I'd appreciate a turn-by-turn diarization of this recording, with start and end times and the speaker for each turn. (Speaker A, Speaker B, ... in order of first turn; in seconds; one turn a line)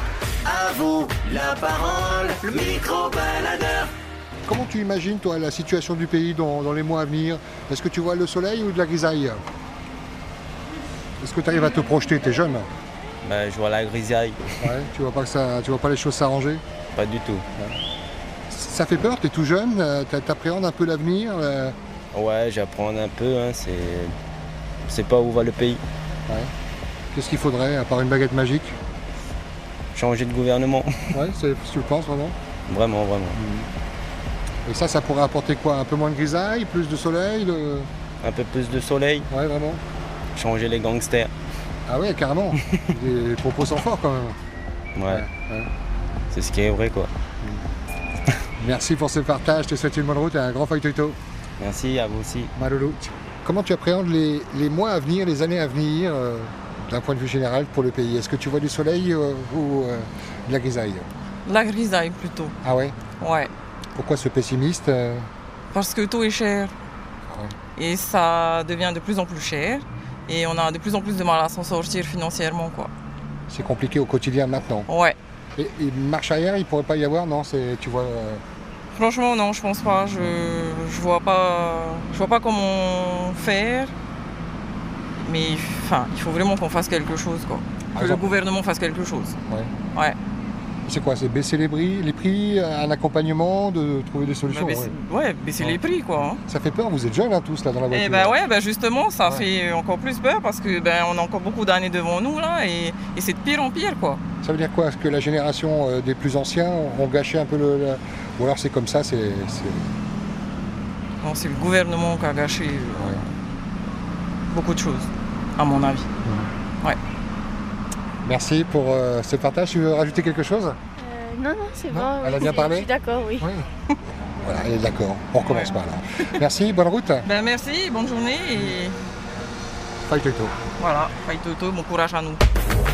Speaker A: 0.5-3.9
Speaker B: 4.5-9.4
Speaker B: 11.2-12.7
Speaker C: 13.2-14.4
Speaker B: 14.6-16.6
Speaker C: 16.9-17.4
Speaker B: 18.5-21.8
Speaker C: 22.1-24.1
Speaker C: 24.9-25.8
Speaker B: 27.1-28.8
Speaker C: 29.9-30.9
Speaker B: 31.1-32.4
Speaker C: 32.7-33.4
Speaker B: 33.3-33.7
Speaker B: 34.7-37.9
Speaker C: 38.2-39.3
Speaker B: 39.3-39.8
Speaker C: 40.4-41.3
Speaker B: 41.9-44.4
Speaker C: 45.0-45.3
Speaker B: 45.1-45.7
Speaker C: 46.3-47.1
Speaker B: 48.6-51.2
Speaker C: 51.6-52.5
Speaker B: 52.5-61.1
Speaker D: 61.5-62.5
Speaker B: 62.6-63.0
Speaker D: 63.2-63.5
Speaker B: 64.0-65.3
Speaker D: 65.7-66.7
Speaker B: 67.3-67.5
Speaker D: 67.8-72.9
Speaker B: 73.5-74.9
Speaker D: 74.9-75.2
Speaker B: 75.6-78.4
Speaker D: 78.9-83.9
Speaker D: 85.2-89.4
Speaker B: 88.0-88.3
Speaker B: 90.9-95.0
Speaker D: 94.5-96.4
Speaker B: 96.5-98.4
Speaker D: 97.9-104.2
Speaker B: 104.4-109.8
Speaker D: 111.2-113.3
Speaker B: 113.0-113.2
Speaker D: 114.5-116.1
Speaker B: 116.2-116.5
Speaker B: 118.2-120.8
Speaker E: 121.0-123.5
Speaker B: 121.9-123.7
Speaker B: 124.4-127.3
Speaker D: 125.4-125.7
Speaker D: 127.2-128.9
Speaker B: 130.1-130.6
Speaker D: 130.8-132.4